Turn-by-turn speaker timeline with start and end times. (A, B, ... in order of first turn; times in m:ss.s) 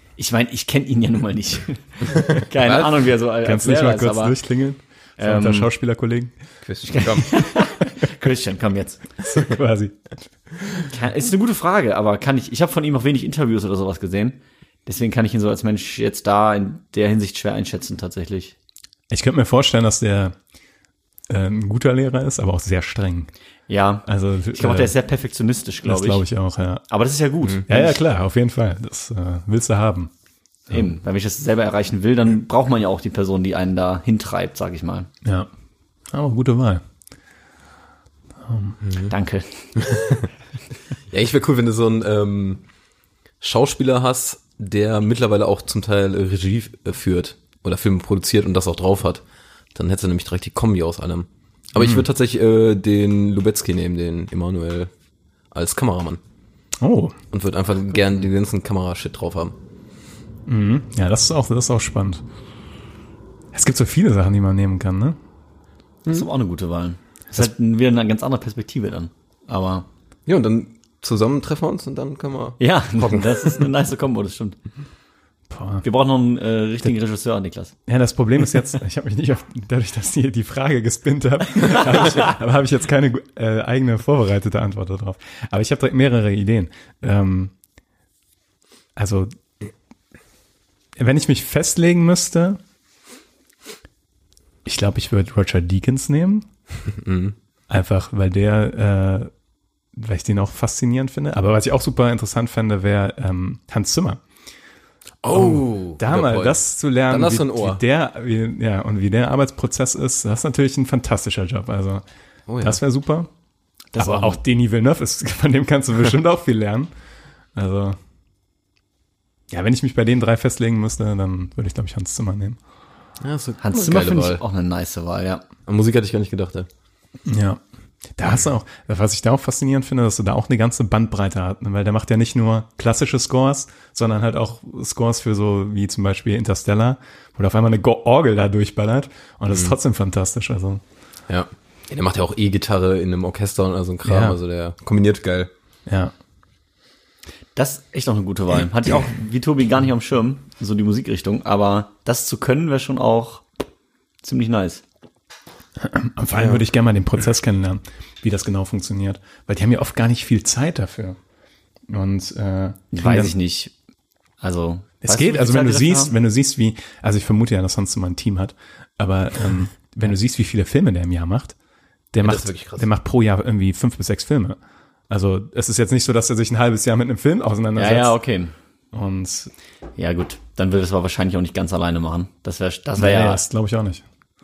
0:00.2-0:04.4 A
0:02.6-0:03.0 B
0:03.4-0:06.3 C
0:05.2-0:05.7 A
0:06.6-0:07.5 B
0:06.9-0:09.1 A
0:09.2-0:10.9 C
0:10.9-0:18.5 A
0:19.1-0:20.4 C
0:21.3-0:23.3 C
0:23.7-0:26.2 A
0:24.1-0:24.9 C
0:25.9-0:26.8 C
0:26.9-0:28.0 A
0:27.7-0:30.1 C
0:30.7-0:35.1 A
0:36.1-0:36.8 C
0:38.4-0:38.8 C
0:38.9-0:39.1 B
0:39.1-0:39.9 A
0:41.1-0:42.6 B
0:43.4-0:54.9 B
0:51.8-0:52.0 C
0:55.5-0:56.2 B
0:56.8-0:57.2 C
0:57.3-0:59.6 B
1:00.5-1:02.2 C
1:03.5-1:05.2 C
1:06.1-1:09.9 A
1:10.3-1:13.6 B
1:12.6-1:14.6 A
1:15.5-1:15.8 C
1:15.8-1:17.8 A
1:17.9-1:27.5 C
1:29.0-1:29.3 C
1:31.0-1:32.6 C
1:34.6-1:36.5 C
1:36.9-1:37.4 B
1:37.7-1:39.3 C
1:39.9-1:44.2 C
1:45.2-1:47.8 B
1:45.3-1:52.0 C
1:52.5-1:52.8 B
1:52.6-1:53.3 C
1:53.9-1:54.4 A
1:54.0-1:56.9 C
1:57.6-1:58.0 C
1:59.5-2:02.6 C
2:03.2-2:04.4 B
2:03.6-2:05.4 A
2:05.7-2:06.7 B
2:07.3-2:07.6 C
2:08.1-2:20.8 C
2:21.3-2:25.5 B
2:24.0-2:24.4 C
2:25.9-2:26.1 C
2:27.6-2:33.4 A
2:34.2-2:34.8 A
2:35.8-2:41.2 C
2:36.4-2:36.6 B
2:41.9-2:43.4 C
2:42.9-2:43.7 A
2:44.4-2:46.1 A
2:45.0-2:51.6 C
2:52.1-2:54.6 C
2:52.2-2:52.9 B
2:55.1-2:58.1 C
2:57.8-2:58.5 A
2:58.9-2:59.5 C
3:00.0-3:03.4 A
3:03.0-3:04.1 C